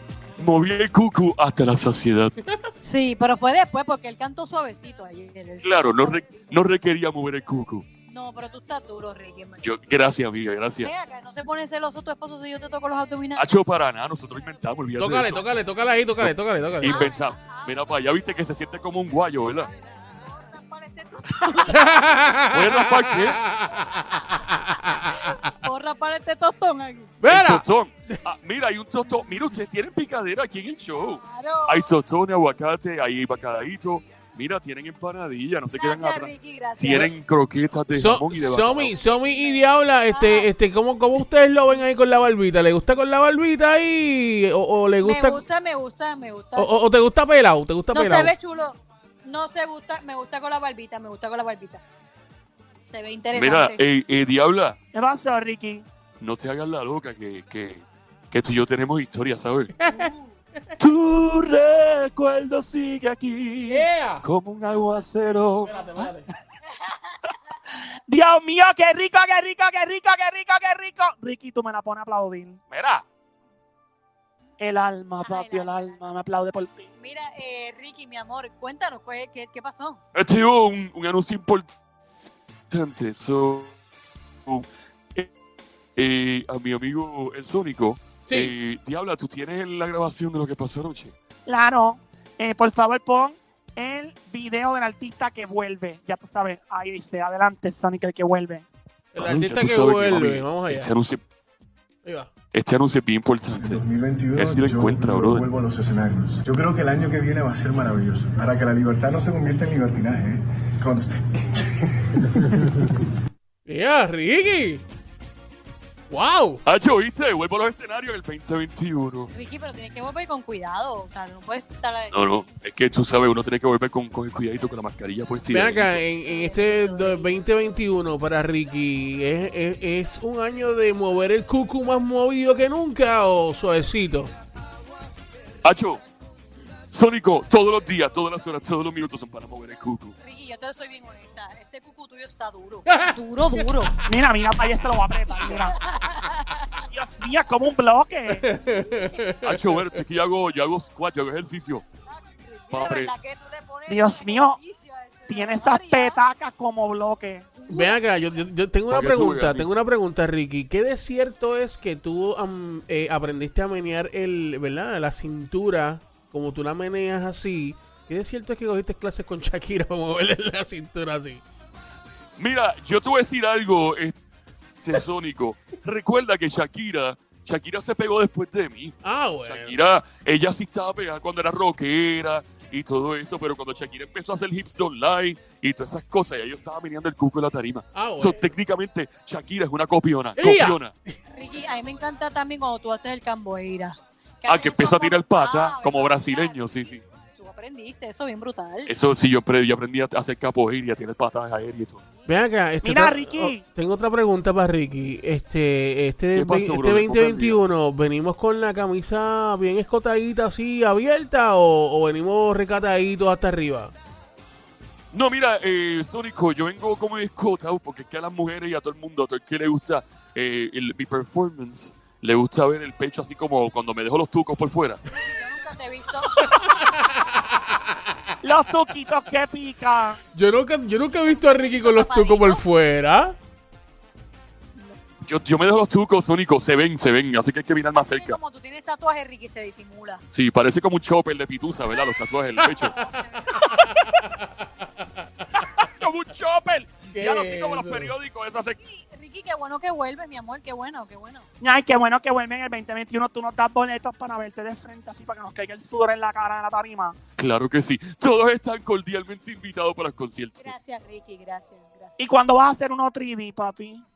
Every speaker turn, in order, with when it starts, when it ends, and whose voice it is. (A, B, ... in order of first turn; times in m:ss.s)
0:00.4-0:02.4 A
0:02.4-0:02.7 B
0:02.8-0:06.6 C
0:05.6-0:07.9 A
0:08.1-0:09.7 C
0:09.6-0:10.9 A
0:10.8-0:13.5 C
0:13.4-0:15.4 A
0:15.0-0:17.1 B
0:16.2-0:19.7 A
0:16.8-0:17.9 C
0:19.4-0:22.4 C
0:21.7-0:25.3 B
0:22.5-0:23.4 A
0:23.8-0:27.2 C
0:27.2-0:28.2 B
0:27.3-0:38.9 A
0:31.2-0:31.9 C
0:35.8-0:37.1 C
0:37.9-0:45.4 B
0:39.0-0:40.5 C
0:45.0-0:46.8 C
0:46.6-0:48.3 B
0:47.9-0:51.8 C
0:52.9-0:53.8 C
0:53.3-0:54.8 A
0:54.9-0:55.9 D
0:56.2-0:59.8 A
0:59.8-1:00.1 B
1:00.8-1:06.0 A
1:03.7-1:04.2 B
1:05.6-1:06.3 B
1:06.8-1:07.1 C
1:08.1-1:12.6 D
1:12.7-1:13.0 A
1:14.6-1:16.9 D
1:15.2-1:16.0 C
1:17.0-1:20.0 C
1:20.2-1:21.7 A
1:22.7-1:23.7 A
1:24.5-1:25.3 A
1:26.0-1:31.1 A
1:31.5-1:38.7 D
1:39.1-1:41.0 B
1:39.2-1:41.2 A
1:42.0-1:42.3 B
1:42.5-1:43.8 A
1:43.5-1:51.6 E
1:44.4-1:45.5 A
1:53.7-1:54.8 B
1:56.1-1:56.6 B
1:56.7-1:59.3 A
1:59.3-2:02.3 C
2:02.1-2:06.0 A
2:05.5-2:14.3 B
2:06.2-2:07.4 C
2:15.6-2:16.0 A
2:16.9-2:20.1 A
2:20.2-2:23.9 C
2:22.9-2:23.7 B
2:24.1-2:25.8 D
2:25.4-2:26.9 C
2:26.9-2:28.5 D
2:28.3-2:30.0 B
2:29.4-2:31.8 A
2:32.1-2:36.2 C
2:32.7-2:33.1 A
2:33.9-2:34.6 D
2:35.3-2:37.5 D
2:37.6-2:38.0 C
2:37.7-2:51.4 B
2:38.9-2:39.7 A
2:52.4-2:54.2 A
2:54.8-3:10.9 A
2:59.0-2:59.8 B
3:07.9-3:08.5 B
3:10.4-3:10.8 B
3:11.3-3:18.9 C
3:14.5-3:17.0 A
3:18.9-3:22.0 A
3:22.3-3:33.9 B
3:22.8-3:23.6 D
3:26.4-3:27.6 A
3:35.1-3:45.0 A
3:45.1-3:47.1 C
3:46.7-3:48.0 B
3:48.4-3:50.2 D
3:50.3-3:53.4 B
3:51.1-3:52.6 C
3:55.3-3:58.4 A
3:57.9-4:00.2 C
4:00.3-4:02.9 A
4:02.7-4:02.9 B
4:02.8-4:03.7 C
4:03.6-4:04.1 A
4:03.6-4:05.6 B
4:05.6-4:08.8 A
4:07.1-4:08.1 B
4:08.8-4:11.5 C
4:11.6-4:17.2 D
4:17.4-4:20.7 A
4:20.6-4:22.2 C
4:22.2-4:24.0 D